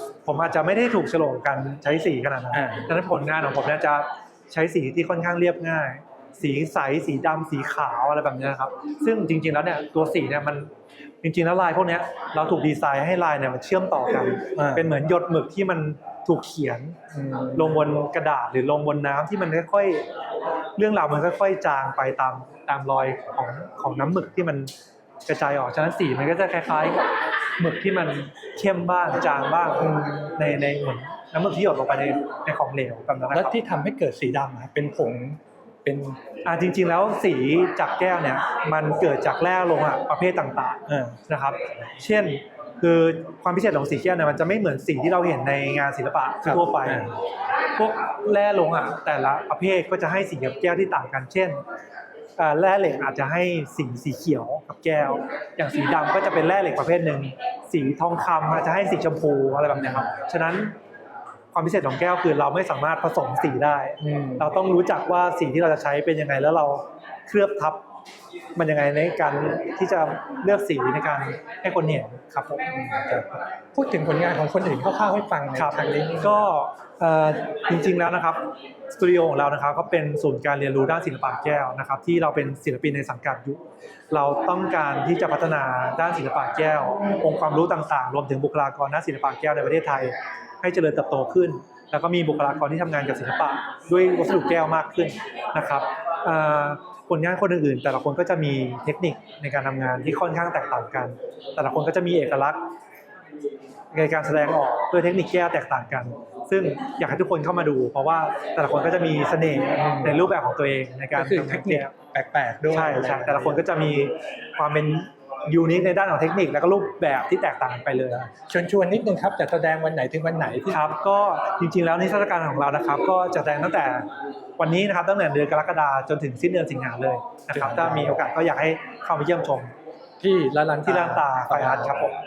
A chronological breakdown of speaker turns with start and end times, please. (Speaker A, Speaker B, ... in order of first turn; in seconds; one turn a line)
Speaker A: 0.2-10.7
Speaker B: 2.5-2.9
Speaker A: 11.2-16.9
Speaker B: 14.6-14.9
Speaker B: 17.1-17.8
Speaker A: 17.5-20.0
Speaker A: 20.8-24.7
Speaker A: 25.2-33.5
Speaker B: 29.8-30.3
Speaker B: 33.3-36.2
Speaker A: 36.4-47.1
Speaker B: 40.9-41.2
Speaker B: 46.4-47.1
Speaker A: 47.8-51.6
Speaker A: 52.4-60.7
Speaker A: 61.5-67.8
Speaker B: 64.0-64.5
Speaker A: 68.5-72.6
Speaker B: 72.7-76.4
Speaker A: 75.5-102.6
Speaker A: 103.9-111.9
Speaker B: 109.8-110.2
Speaker B: 111.1-113.7
Speaker A: 112.7-118.3
Speaker B: 118.4-120.8
Speaker A: 120.7-124.1
Speaker A: 124.6-129.7
Speaker B: 127.5-128.2
Speaker B: 130.2-131.9
Speaker A: 130.8-132.2